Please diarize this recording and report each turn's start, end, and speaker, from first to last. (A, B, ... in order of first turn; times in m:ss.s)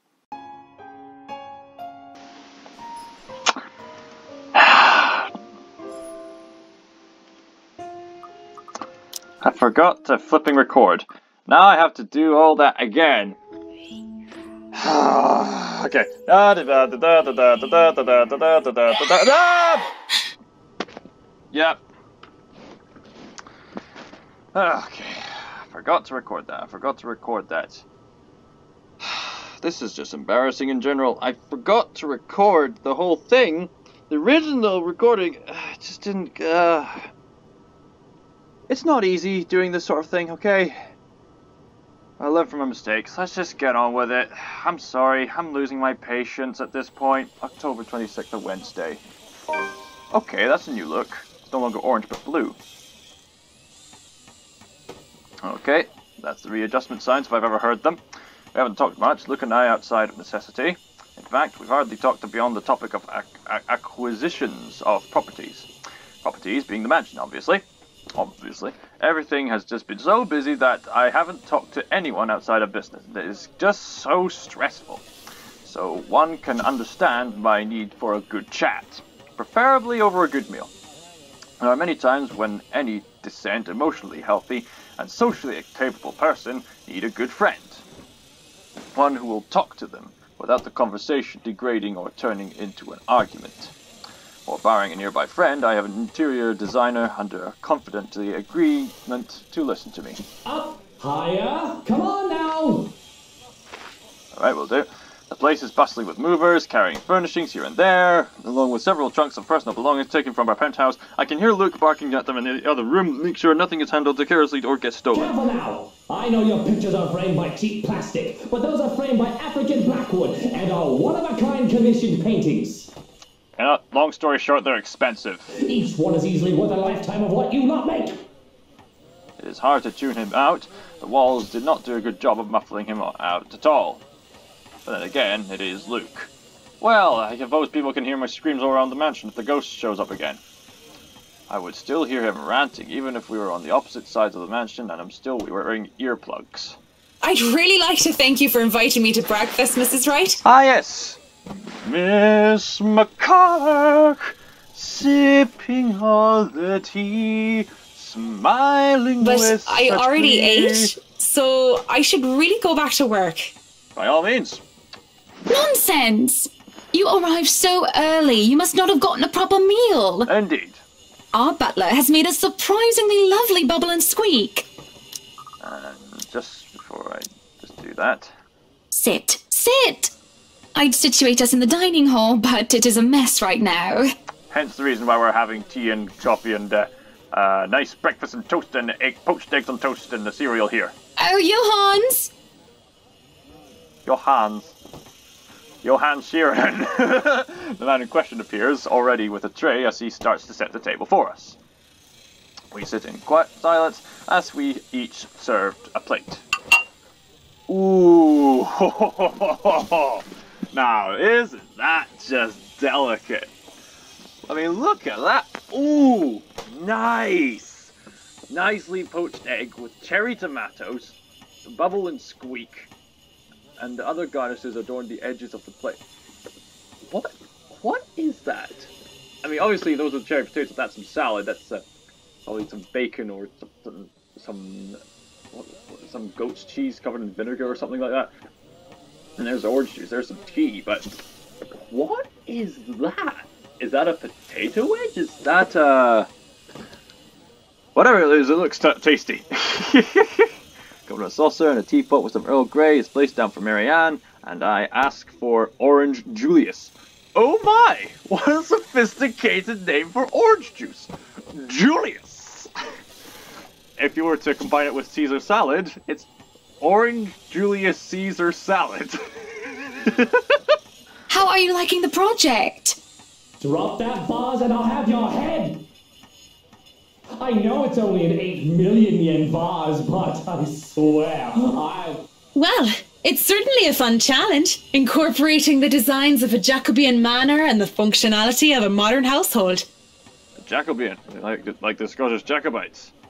0:04.6-0:05.2 A
0:09.4-0:13.4 A
0:14.7-0:19.9 A
0:21.5-0:21.8 A
0:24.5-0:27.8 A
0:29.0-0:37.1 A
0:38.7-0:40.8 A
0:42.2-0:49.0 A
0:50.1-0:52.6 A
0:55.4-0:58.0 A
0:58.6-1:05.7 A
1:06.2-1:07.6 A
1:08.2-1:15.0 A
1:15.6-1:20.7 A
1:21.6-1:27.8 A
1:28.9-1:33.7 A
1:34.4-1:40.2 A
1:40.4-1:42.9 B
1:44.3-1:55.3 A
1:55.1-2:02.9 B
2:03.6-2:05.5 A
2:05.5-2:08.2 B
2:09.4-2:14.0 A
2:14.8-2:20.4 A
2:21.5-2:26.8 A
2:27.2-2:30.4 C
2:30.4-2:31.2 A
2:31.8-2:40.9 A
2:39.2-2:43.5 C
2:44.0-2:44.6 A
2:45.5-2:50.3 D
2:50.3-2:50.8 A
2:51.3-2:54.7 D
2:55.6-2:58.3 A
2:58.9-3:00.1 D
3:00.8-3:04.1 D
3:04.5-3:10.9 A
3:11.2-3:12.3 D
3:14.1-3:14.8 A
3:15.8-3:21.6 A
3:22.7-3:26.4 A
3:27.7-3:33.5 A
3:34.5-3:37.9 A
3:38.5-3:42.9 A
3:43.8-3:46.0 A
3:47.1-3:48.9 A
3:49.4-3:51.8 A
3:52.4-3:55.0 A
3:55.5-3:58.3 A
3:59.4-4:01.1 A
4:01.9-4:06.3 A
4:07.9-4:10.5 A
4:11.1-4:22.7 A
4:24.0-4:26.3 A
4:26.8-4:29.2 A
4:30.0-4:30.6 A
4:31.3-4:33.0 D
4:33.6-4:35.8 B
4:37.4-4:42.2 B
4:42.6-4:49.9 C
4:50.6-4:53.1 A